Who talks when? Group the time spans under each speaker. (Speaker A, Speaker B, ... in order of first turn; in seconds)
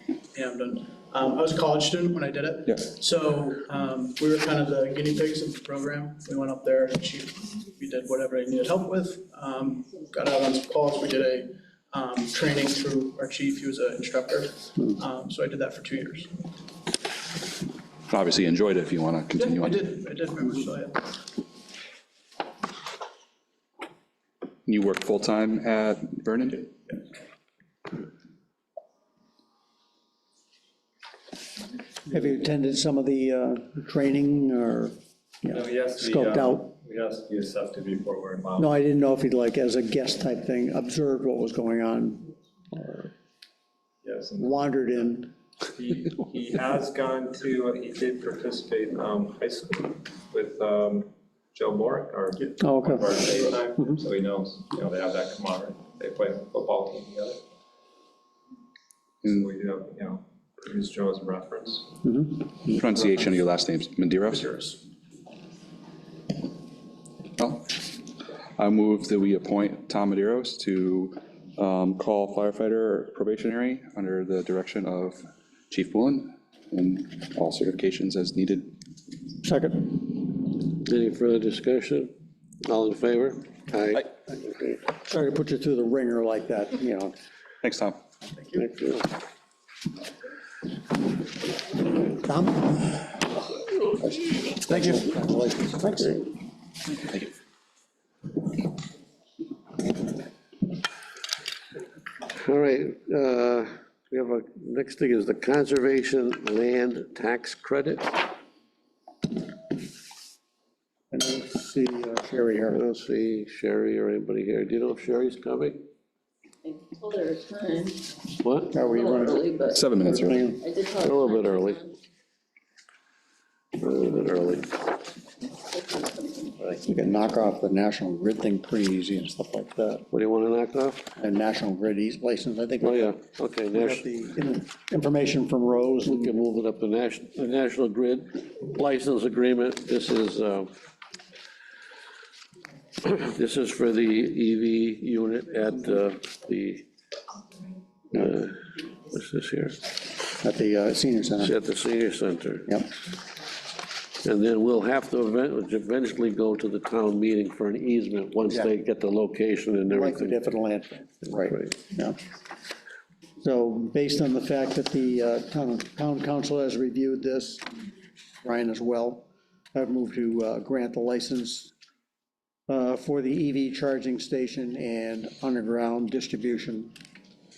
Speaker A: 0.3-16.3, 19.3-21.0, 88.3-88.6
Speaker B: 18.1-19.9, 24.6-26.7, 62.7-64.6, 67.4-67.9, 68.6-78.7, 87.6-88.0, 119.7-120.5
Speaker C: 32.0-36.7, 38.6-43.1, 44.4-45.3, 52.6-53.2, 62.0-62.5, 79.4-80.0, 85.1-87.1, 92.1-93.2, 94.0-96.3, 111.1-112.8, 118.7-120.6, 126.8-130.1, 131.2-133.1, 133.7-136.3, 150.4-151.6, 152.7-152.9, 158.4-158.7, 159.9-162.2, 163.4-167.7, 168.4-171.7, 172.7-176.9
Speaker D: 35.5-38.7, 44.0-44.6, 45.7-57.4, 59.2-61.9
Speaker E: 80.6-82.1, 82.6-84.8, 88.5-89.1, 102.3-108.2, 112.7-115.8, 118.4-118.8, 121.0-121.8, 123.8-124.7, 130.1-131.0, 132.8-134.0, 136.0-140.7, 143.0-146.8, 148.1-149.8, 151.4-152.7, 154.2-160.4
Speaker F: 116.6-118.2, 118.8-119.9, 120.6-122.0, 125.7-126.7